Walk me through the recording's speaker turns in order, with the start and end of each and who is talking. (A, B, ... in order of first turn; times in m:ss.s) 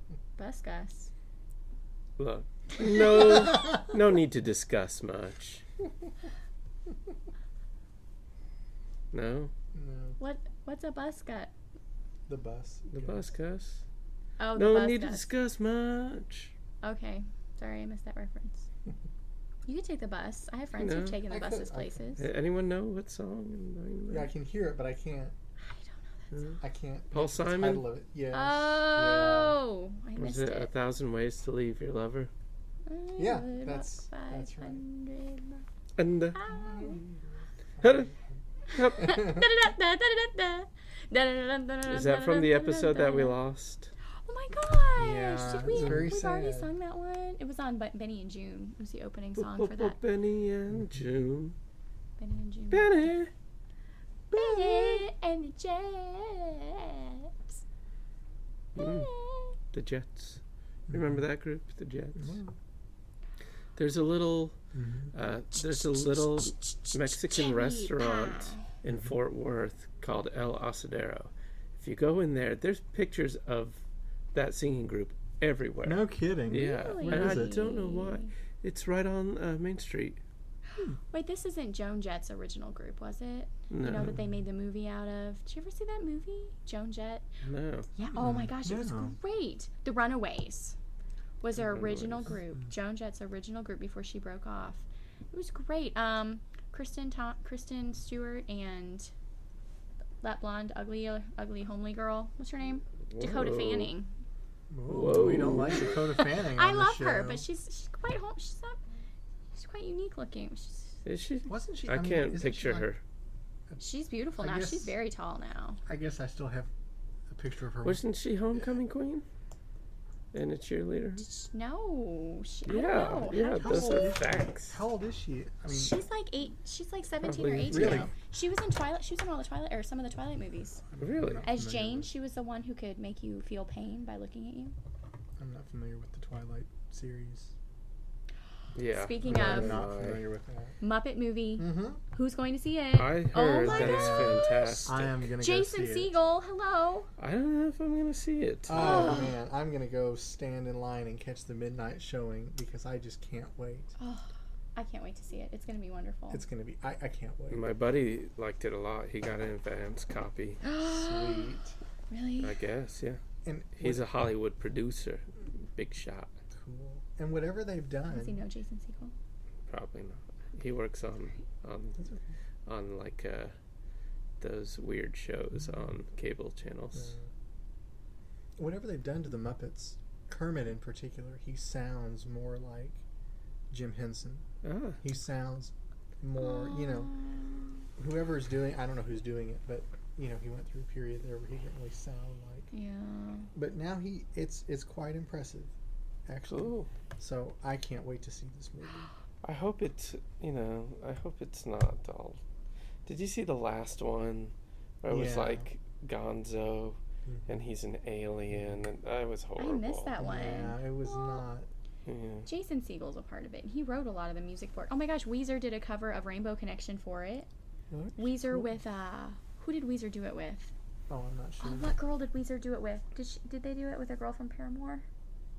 0:00.4-0:01.1 A
0:02.2-0:05.6 B
0:09.1-0:09.5 B
0:09.7-0:10.2 C
0:10.2-0:11.5 A
0:12.3-0:13.2 C
0:12.9-0:13.8 B
0:14.4-0:15.3 A
0:14.5-0:16.5 B
0:16.8-0:18.7 A
0:19.7-0:22.2 A
0:20.8-0:21.2 B
0:21.3-0:22.1 C
0:22.2-0:24.3 B
0:24.1-0:25.3 C
0:25.6-0:26.6 A
0:26.3-0:26.6 B
0:26.6-0:29.6 C
0:27.1-0:27.8 B
0:28.3-0:30.7 A
0:30.2-0:32.3 B
0:32.8-0:35.6 A
0:33.2-0:34.8 C
0:36.0-0:36.4 B
0:36.3-0:37.0 A
0:36.5-0:38.2 C
0:37.8-0:38.1 B
0:38.7-0:39.4 B
0:38.7-0:43.4 A
0:41.9-0:43.9 B
0:44.2-0:50.0 A
0:45.0-0:46.7 C
0:45.7-0:46.1 B
0:49.4-0:51.6 B
0:52.2-0:52.9 A
0:52.7-0:53.3 B
0:54.3-0:57.3 A
0:54.3-0:55.0 B
0:58.8-0:59.1 B
0:58.8-0:59.6 A
0:59.7-1:02.4 B
1:00.9-1:01.2 C
1:02.2-1:02.5 C
1:03.8-1:04.6 B
1:04.7-1:05.1 C
1:05.1-1:13.8 B
1:05.5-1:08.6 A
1:14.3-1:20.2 B
1:15.8-1:17.7 C
1:16.5-1:18.3 A
1:20.8-1:27.2 A
1:23.7-1:24.2 B
1:27.4-1:27.9 B
1:27.9-1:30.8 A
1:28.1-1:29.1 C
1:31.4-1:39.1 A
1:31.6-1:32.3 B
1:40.2-1:44.1 A
1:43.1-1:43.9 B
1:44.7-1:47.4 C
1:44.9-1:46.0 B
1:45.7-1:48.8 A
1:49.5-1:51.0 A
1:51.0-1:53.0 B
1:51.5-1:52.9 C
1:53.8-1:55.8 A
1:54.4-1:54.9 C
1:55.8-1:56.7 C
1:57.3-1:58.0 C
1:57.8-1:59.2 B
2:00.3-2:01.2 B
2:01.2-2:04.2 A
2:02.7-2:04.8 B
2:03.6-2:05.9 C
2:05.7-2:10.8 A
2:07.2-2:08.1 B
2:07.7-2:08.1 C
2:10.9-2:12.1 C
2:11.0-2:11.5 B
2:11.4-2:14.7 A
2:15.4-2:17.5 C
2:18.7-2:20.2 B
2:18.9-2:19.8 A
2:19.2-2:20.8 C
2:20.8-2:27.1 A
2:21.6-2:22.0 C
2:22.9-2:25.2 B
2:23.6-2:26.1 C
2:27.2-2:29.2 B
2:28.7-2:33.9 C
2:28.7-2:29.3 A
2:34.0-2:36.4 A
2:36.3-2:37.6 C
2:37.5-2:40.6 B
2:40.6-2:41.6 A
2:40.8-2:41.8 C
2:42.1-2:42.6 A
2:42.4-2:43.2 B
2:43.4-2:44.0 C
2:43.8-2:46.3 B
2:46.5-2:48.4 C
2:48.1-2:49.1 A
2:49.7-2:52.0 B
2:52.0-2:52.2 C
2:52.6-2:53.5 B
2:54.4-2:57.1 B
2:57.0-2:57.2 C
2:58.6-3:03.0 C
3:03.7-3:04.4 C
3:04.6-3:05.0 B
3:05.0-3:07.1 C
3:06.4-3:07.7 A
3:08.0-3:12.7 C
3:12.7-3:13.5 A
3:13.5-3:15.7 C
3:16.2-3:19.1 C
3:16.5-3:16.9 B
3:19.4-3:22.4 B
3:23.0-3:30.2 B
3:25.1-3:25.6 C
3:27.2-3:27.6 C
3:28.5-3:28.8 C
3:29.6-3:31.4 A
3:30.2-3:31.7 C
3:32.0-3:32.5 B
3:32.4-3:37.5 A
3:37.9-3:38.6 C
3:38.2-3:40.7 A
3:41.1-3:41.9 C
3:41.6-3:45.0 A